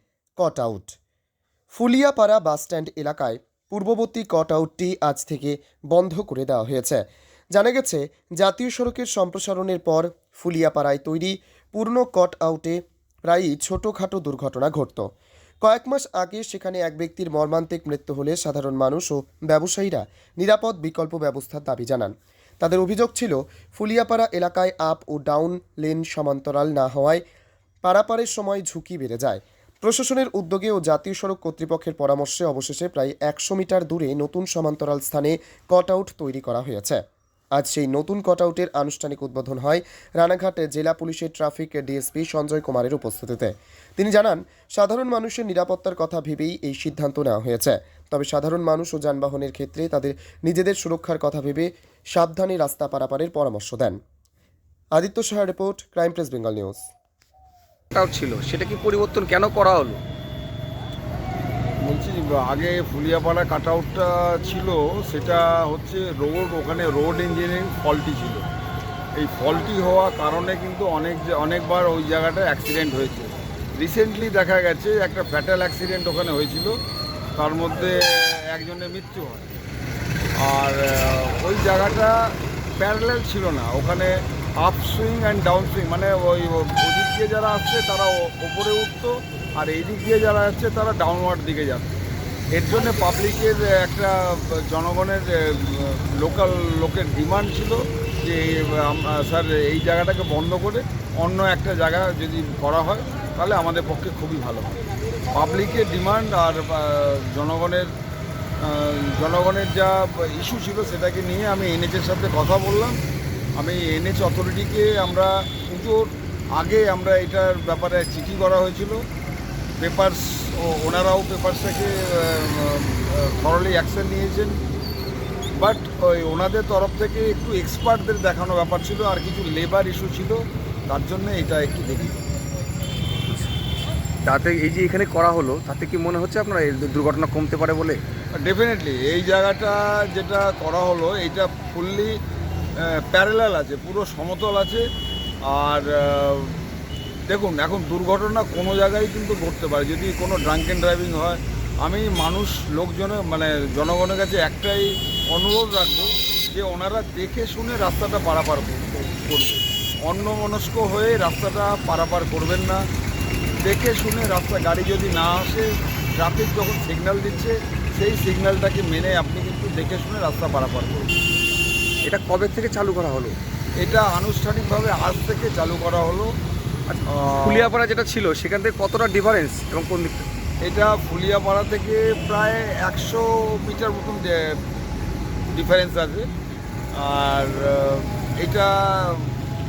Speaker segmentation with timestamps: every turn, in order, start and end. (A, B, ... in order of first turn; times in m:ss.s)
0:00.4-0:00.9 A
0:01.7-0:15.1 A
0:15.6-0:27.2 A
0:27.8-0:37.0 A
0:37.5-0:54.0 A
0:54.9-0:56.9 A
0:57.9-1:00.0 B
1:01.8-1:08.4 C
1:09.1-1:16.8 C
1:17.3-1:19.5 C
1:20.4-1:31.9 C
1:32.5-1:44.7 C
1:45.3-1:47.9 C
1:48.6-1:53.0 C
1:53.6-1:59.0 C
1:59.8-2:04.6 C
2:05.6-2:12.2 C
2:14.2-2:18.0 B
2:18.3-2:22.1 C
2:22.8-2:24.8 C
2:25.5-2:26.6 C
2:27.3-2:42.8 C
2:43.6-2:51.1 C
2:52.0-2:53.4 B
2:53.8-2:56.3 C
2:56.9-3:00.2 B
2:57.1-2:57.7 C
3:00.6-3:04.6 C
3:05.5-3:06.2 C
3:07.0-3:09.3 C